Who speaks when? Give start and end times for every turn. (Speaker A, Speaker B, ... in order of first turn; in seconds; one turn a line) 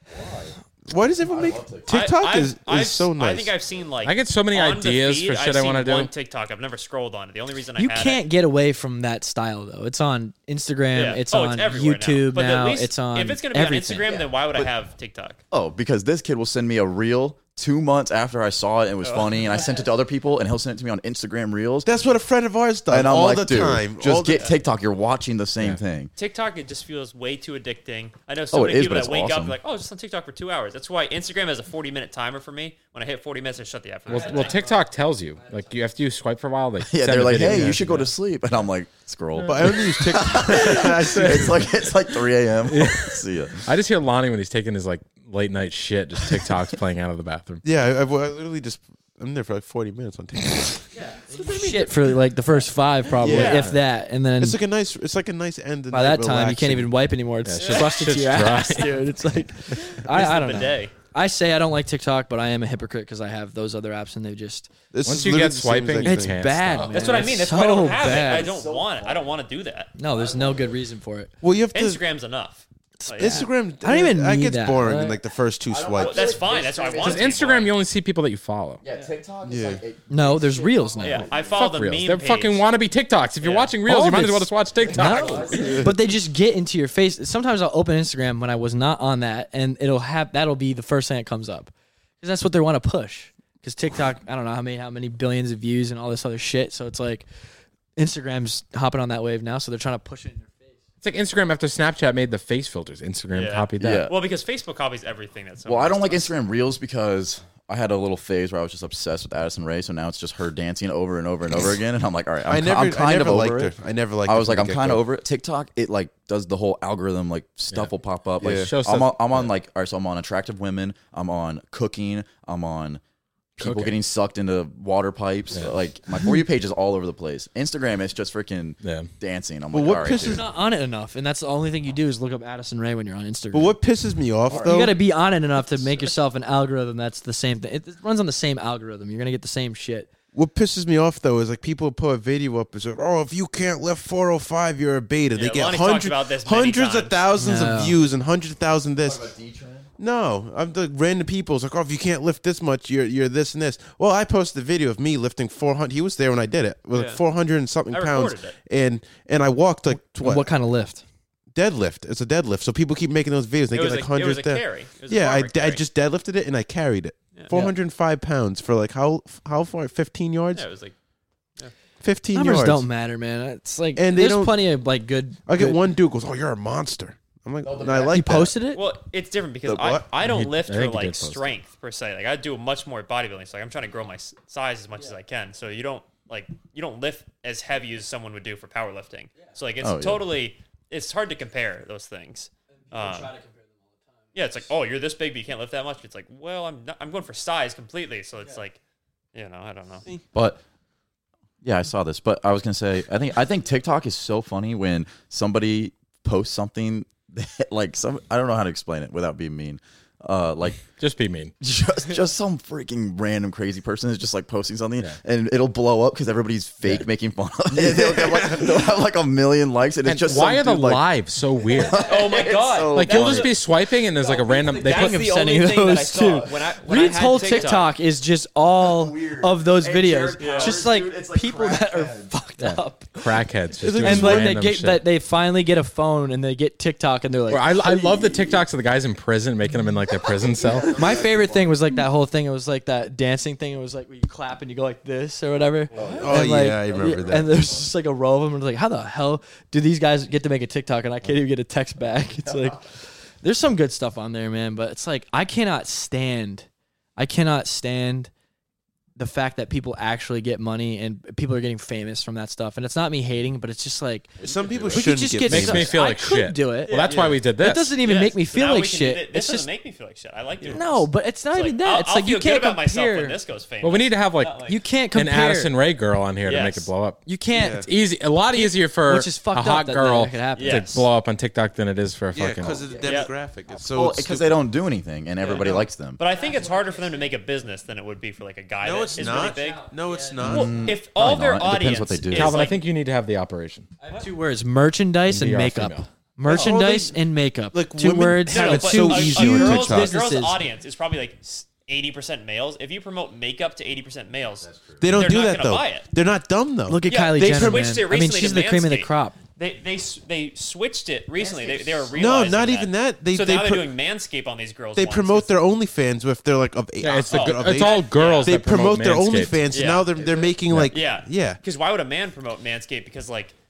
Speaker A: 0.1-0.6
Speaker B: 0.9-3.6
Speaker A: 1.2-1.9
Speaker C: 1.9-8.2
Speaker D: 4.0-6.1
Speaker E: 7.8-14.1
Speaker C: 10.9-15.4
Speaker A: 15.5-22.0
Speaker C: 19.0-19.9
Speaker B: 21.8-24.5
Speaker A: 22.9-26.1
Speaker C: 26.2-34.6
Speaker A: 28.5-29.6
Speaker D: 34.1-38.1
Speaker E: 34.1-35.8
Speaker A: 36.9-43.7
Speaker D: 39.3-39.9
Speaker B: 39.5-41.7
Speaker D: 40.5-41.7
Speaker D: 42.7-47.6
Speaker B: 47.6-52.1
Speaker E: 51.0-54.6
Speaker B: 53.2-53.7
Speaker C: 53.2-53.7
Speaker B: 54.4-56.9
Speaker E: 55.9-64.7
Speaker D: 57.4-59.0
Speaker C: 59.8-60.9
Speaker B: 64.9-66.4
Speaker D: 65.0-67.0
Speaker E: 66.0-68.5
Speaker A: 66.7-69.4
Speaker C: 66.9-69.9
Speaker E: 70.0-71.3
Speaker A: 70.1-70.8
Speaker B: 71.4-72.0
Speaker C: 71.7-73.5
Speaker E: 73.0-75.2
Speaker B: 73.2-76.5
Speaker A: 75.7-77.3
Speaker C: 76.0-77.8
Speaker D: 77.0-78.8
Speaker A: 78.8-81.7
Speaker B: 79.4-79.8
Speaker E: 80.1-81.4
Speaker C: 81.0-82.6
Speaker D: 81.5-85.6
Speaker C: 83.4-83.8
Speaker E: 83.9-97.3
Speaker A: 84.8-86.0
Speaker C: 84.9-85.8
Speaker B: 85.5-85.9
Speaker E: 98.0-100.7
Speaker D: 101.0-104.1
Speaker C: 103.3-106.3
Speaker A: 103.8-104.1
Speaker A: 105.7-123.0
Speaker B: 112.5-115.0
Speaker B: 118.4-118.7
Speaker D: 118.5-119.5
Speaker A: 123.6-130.4
Speaker D: 123.6-124.0
Speaker D: 128.8-129.1
Speaker B: 129.7-130.5
Speaker E: 130.2-133.8
Speaker B: 133.5-135.0
Speaker A: 134.5-134.7
Speaker E: 134.5-140.1
Speaker B: 140.3-149.3
Speaker C: 145.3-147.2
Speaker E: 147.3-148.0
Speaker A: 149.0-149.9
Speaker B: 150.0-160.5
Speaker C: 156.9-157.2
Speaker C: 157.9-158.6
Speaker E: 160.2-161.0
Speaker B: 161.5-170.7
Speaker C: 163.7-165.8
Speaker E: 167.5-167.8
Speaker C: 170.5-170.9
Speaker B: 172.0-172.9
Speaker E: 172.3-175.8
Speaker B: 173.9-174.6
Speaker B: 175.5-178.5
Speaker A: 177.6-178.2
Speaker E: 177.9-178.8
Speaker C: 178.7-193.3
Speaker B: 179.7-180.1
Speaker D: 180.2-181.5
Speaker A: 189.8-190.3
Speaker E: 192.8-194.2
Speaker C: 194.3-198.8
Speaker C: 199.3-200.1
Speaker A: 200.3-200.6
Speaker A: 201.6-210.9
Speaker D: 211.0-211.5
Speaker A: 211.6-221.1
Speaker B: 217.7-218.9
Speaker D: 220.1-222.1
Speaker A: 221.7-224.8
Speaker C: 221.9-223.6
Speaker D: 222.9-225.2
Speaker C: 224.7-227.9
Speaker E: 224.8-237.9
Speaker A: 226.5-227.8
Speaker A: 228.8-232.3
Speaker C: 230.4-230.8
Speaker D: 232.6-235.1
Speaker B: 233.9-234.5
Speaker D: 237.5-241.1
Speaker A: 237.8-238.6
Speaker A: 240.2-241.8
Speaker E: 240.9-258.3
Speaker C: 245.9-246.3
Speaker A: 245.9-246.4
Speaker B: 246.2-247.6
Speaker A: 247.0-247.8
Speaker E: 259.2-264.4
Speaker A: 264.4-265.1
Speaker B: 264.4-265.9
Speaker E: 264.9-269.7
Speaker D: 265.4-268.0
Speaker C: 266.9-267.4
Speaker C: 268.0-274.8
Speaker B: 270.6-270.9
Speaker E: 270.7-273.4
Speaker D: 273.8-277.2
Speaker E: 274.7-275.7
Speaker C: 276.4-276.9
Speaker E: 277.3-277.9
Speaker B: 277.5-277.9
Speaker D: 277.8-282.8
Speaker E: 278.5-280.9
Speaker C: 280.6-281.1
Speaker B: 282.3-284.6
Speaker A: 282.6-286.2
Speaker C: 283.0-283.3
Speaker C: 285.4-289.9
Speaker E: 286.3-287.4
Speaker B: 288.8-290.9
Speaker E: 289.1-290.9
Speaker A: 290.4-292.7
Speaker C: 290.4-292.8
Speaker D: 292.3-293.9
Speaker E: 294.0-300.6
Speaker D: 295.3-296.1
Speaker B: 296.4-300.1
Speaker C: 298.5-306.1
Speaker A: 304.6-305.3
Speaker B: 305.0-308.0
Speaker E: 306.9-309.4
Speaker C: 307.1-315.5
Speaker A: 311.4-312.5
Speaker B: 312.1-313.9
Speaker B: 314.9-321.6
Speaker D: 317.0-319.6
Speaker C: 317.3-318.6
Speaker C: 319.7-323.5
Speaker D: 320.7-320.9